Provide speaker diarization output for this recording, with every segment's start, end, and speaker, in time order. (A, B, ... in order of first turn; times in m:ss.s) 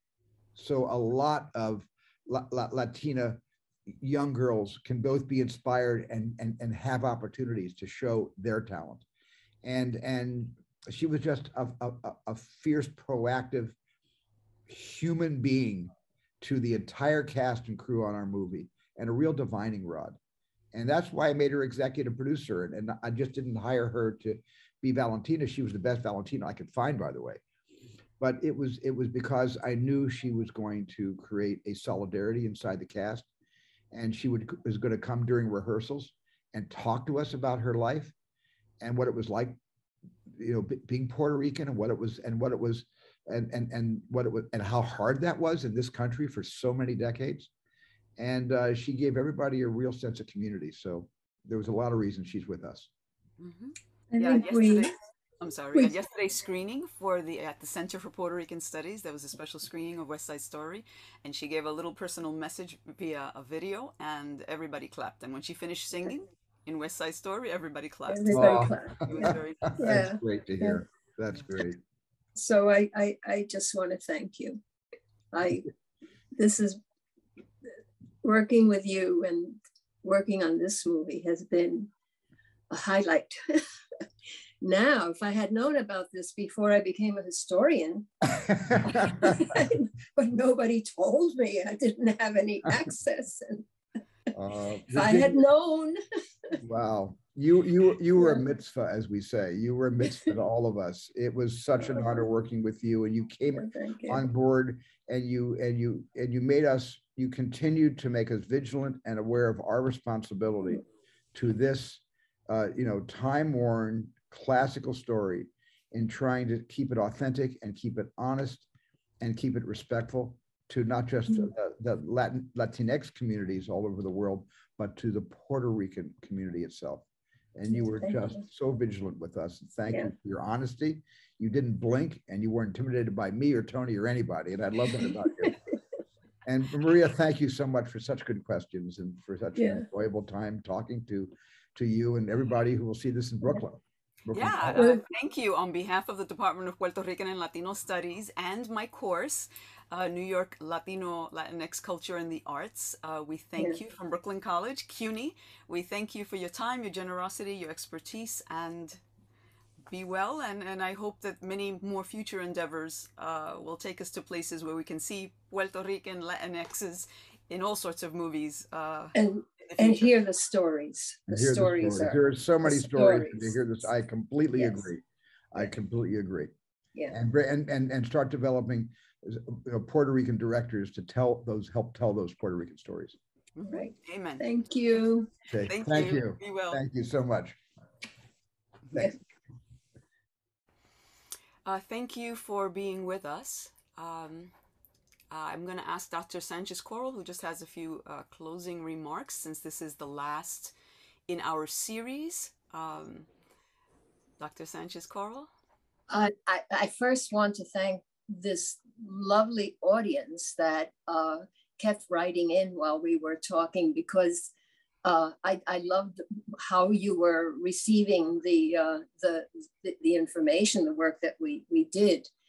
0:00.6-0:09.0 A
0:09.6-0:13.8 A
0:14.7-0:20.2 A
0:20.7-0:27.4 A
0:28.2-0:33.3 A
0:33.9-0:38.1 A
0:38.8-0:39.6 A
0:40.3-0:47.5 A
0:48.2-0:52.9 A
0:53.4-1:09.8 B
0:54.1-0:54.9 C
1:08.1-1:10.8 C
1:08.3-1:11.8 A
1:12.4-1:14.6 C
1:15.3-1:15.7 C
1:16.4-1:16.8 C
1:18.2-1:21.9 C
1:22.7-1:23.6 C
1:24.6-1:28.2 C
1:28.4-1:29.6 A
1:28.9-1:33.7 C
1:34.3-1:35.4 A
1:34.9-1:36.6 C
1:36.6-1:58.7 A
1:43.5-1:44.2 C
1:59.2-2:15.6 A
2:07.7-2:08.3 C
2:16.4-2:24.8 A
2:19.6-2:19.8 C
2:24.3-2:39.0 B
2:24.7-2:25.0 C
2:39.9-2:50.1 B
2:49.2-2:53.6 C
2:51.3-2:56.5 A
2:54.5-2:54.8 C
2:57.1-3:03.2 A
3:03.6-3:04.5 B
3:03.7-3:05.3 C
3:05.5-3:07.6 A
3:05.7-3:06.8 B
3:11.7-3:14.5 B
3:15.3-3:20.7 B
3:21.3-3:23.3 B
3:24.4-3:25.5 B
3:26.1-3:34.5 C
3:35.0-3:42.3 C